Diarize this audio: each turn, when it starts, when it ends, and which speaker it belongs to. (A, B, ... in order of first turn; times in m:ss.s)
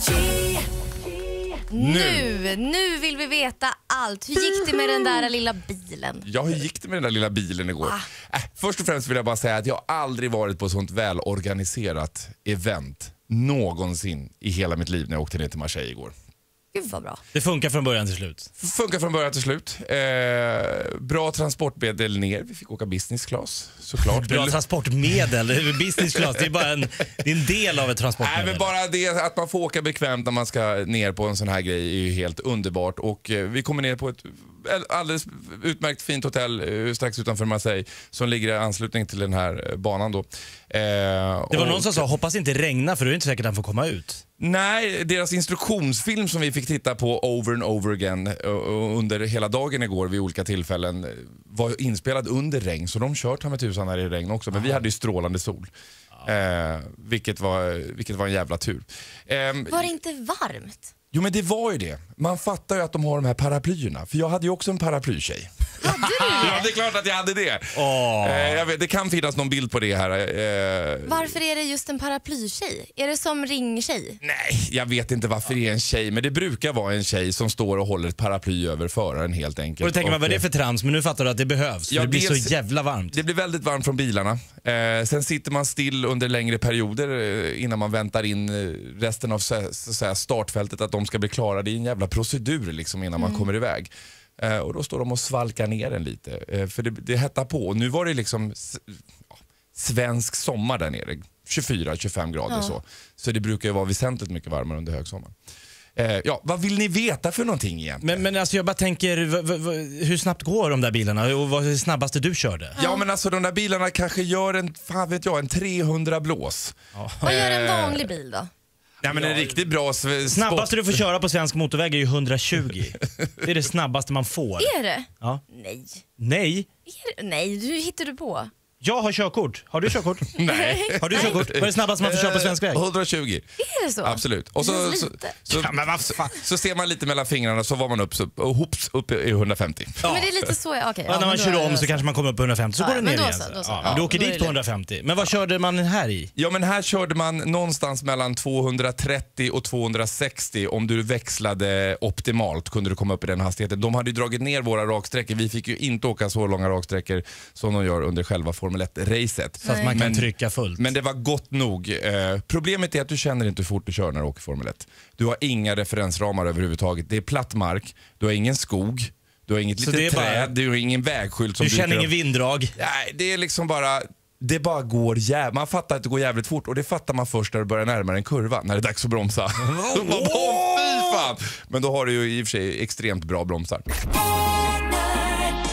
0:01.7-0:06.3 A
0:01.8-0:02.3 B
0:06.2-0:16.1 B
0:07.8-0:08.1 A
0:16.7-0:17.2 A
0:17.3-0:18.5 C
0:18.6-0:24.6 B
0:24.0-0:28.7 C
0:28.2-0:42.1 B
0:41.5-0:44.2 C
0:44.4-0:55.7 B
0:54.5-0:54.8 C
0:56.2-0:59.9 B
0:59.7-1:00.8 A
1:01.1-1:11.4 B
1:05.8-1:06.7 A
1:07.7-1:08.7 C
1:11.1-1:14.2 A
1:14.2-1:20.4 B
1:19.8-1:23.2 C
1:21.9-1:22.6 B
1:23.1-1:45.3 B
1:33.2-1:33.5 A
1:42.5-1:42.8 A
1:46.0-1:48.2 B
1:48.0-1:52.8 C
1:52.8-1:53.0 A
1:52.8-1:58.1 B
1:57.0-1:57.3 C
1:57.2-1:58.5 A
1:59.0-2:01.0 B
1:59.1-1:59.6 C
2:00.3-2:05.4 C
2:04.6-2:06.0 A
2:06.2-2:06.7 C
2:06.9-2:08.5 A
2:08.8-2:10.3 C
2:10.4-2:13.5 B
2:10.4-2:11.4 A
2:11.0-2:12.8 C
2:13.6-2:15.3 A
2:14.0-2:20.3 B
2:15.5-2:16.4 C
2:20.0-2:20.3 C
2:20.0-2:22.1 A
2:21.1-2:26.3 C
2:22.8-2:24.6 A
2:23.8-2:24.2 B
2:26.4-2:52.1 B
2:39.6-2:40.9 C
2:39.6-2:40.0 A
2:49.8-2:50.5 C
2:51.6-2:52.7 C
2:52.8-3:03.9 B
2:59.7-3:01.2 C